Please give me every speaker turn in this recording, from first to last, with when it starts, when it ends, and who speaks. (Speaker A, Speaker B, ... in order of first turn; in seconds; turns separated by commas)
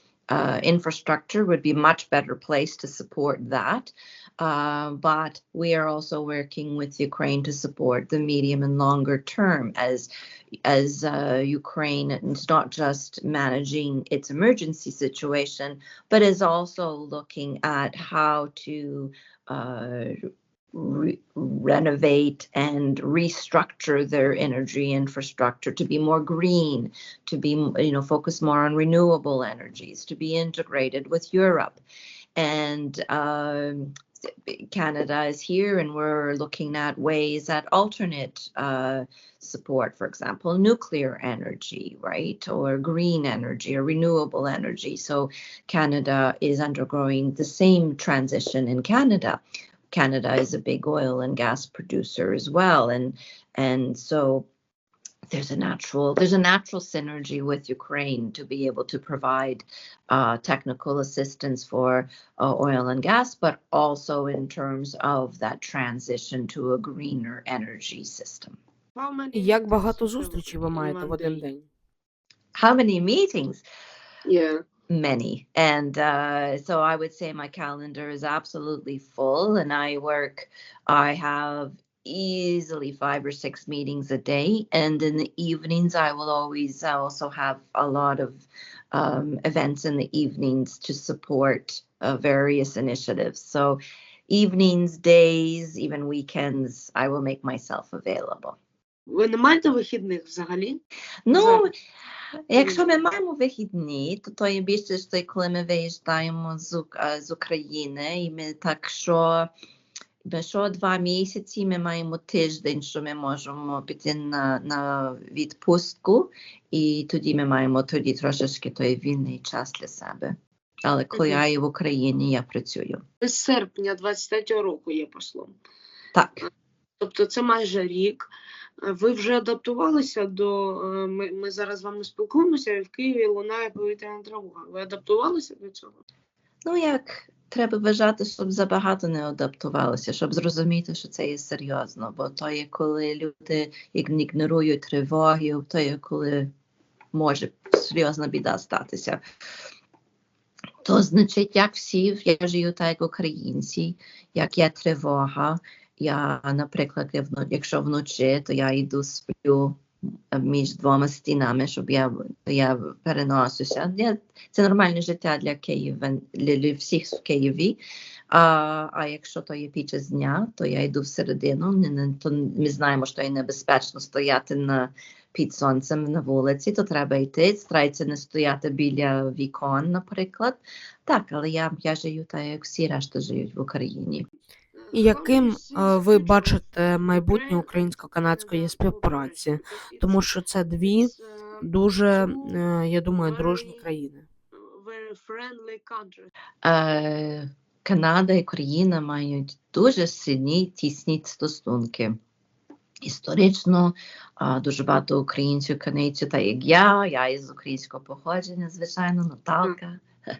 Speaker A: 0.3-10.1, Speaker A: 10.6-20.1, Speaker A: 20.7-31.8, Speaker A: 32.4-33.9, Speaker A: 34.5-49.4, Speaker A: 49.9-54.5, Speaker A: 55.3-68.6, Speaker B: 68.9-71.5, Speaker C: 69.3-71.7, Speaker A: 72.5-73.6, Speaker B: 74.2-74.6, Speaker A: 74.9-98.6, Speaker B: 99.1-100.8, Speaker A: 101.2-101.7, Speaker B: 101.3-101.7, Speaker A: 102.5-109.5, Speaker B: 102.5-103.0, Speaker A: 110.3-123.0, Speaker B: 121.1-121.4, Speaker B: 123.2-125.5, Speaker A: 126.1-126.4, Speaker B: 127.0-128.3, Speaker B: 128.8-136.0, Speaker A: 136.6-146.5, Speaker A: 147.1-149.2, Speaker A: 150.8-159.8, Speaker A: 160.3-167.8, Speaker A: 168.3-184.2, Speaker B: 184.7-192.7, Speaker C: 184.9-194.3, Speaker B: 193.2-193.9, Speaker B: 194.5-196.3, Speaker A: 196.6-202.1, Speaker A: 203.0-210.0